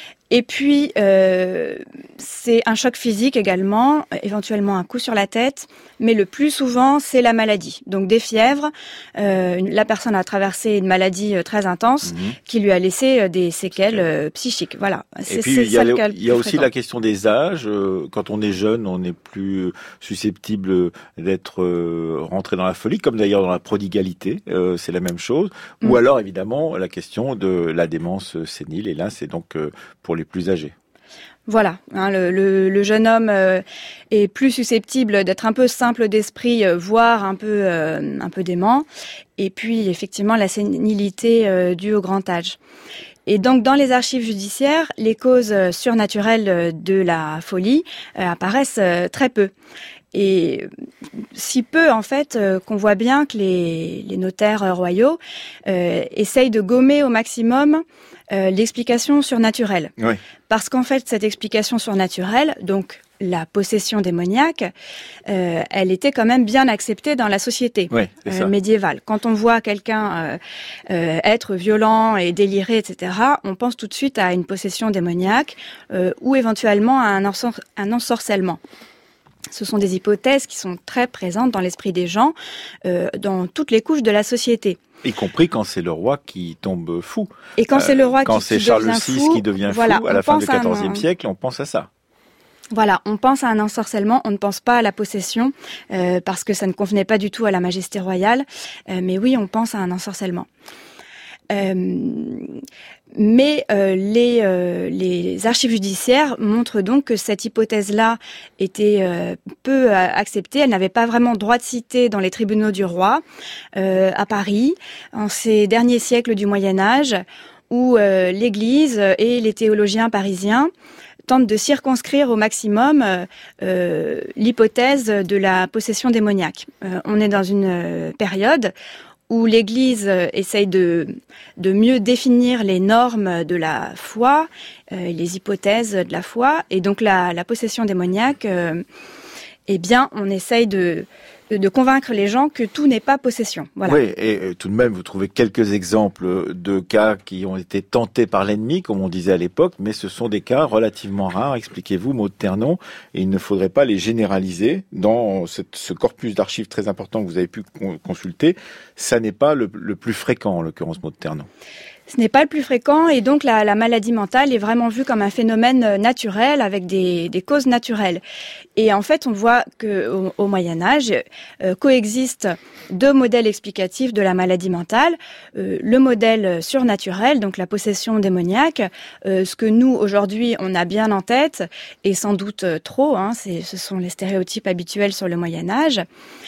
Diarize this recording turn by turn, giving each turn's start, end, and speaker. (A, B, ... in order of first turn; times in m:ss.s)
0:00.3-0:16.7 A
0:12.0-0:12.3 B
0:15.3-0:30.7 B
0:31.5-0:38.8 A
0:39.4-0:42.6 A
0:43.2-0:49.5 A
0:50.1-0:50.7 A
0:51.3-0:59.9 A
1:00.5-1:04.7 A
1:05.3-1:10.4 A
1:07.9-1:08.5 B
1:10.9-1:18.6 A
1:19.5-1:22.3 A
1:22.8-1:24.8 A
1:25.0-1:31.9 B
1:27.6-1:31.0 A
1:32.7-1:40.5 A
1:41.5-1:42.5 A
1:43.1-1:53.2 A
1:53.8-2:00.7 A
2:01.3-2:08.7 A
2:09.3-2:18.8 A
2:19.7-2:24.0 A
2:23.8-2:41.5 B
2:42.1-2:48.2 A
2:48.8-3:06.0 A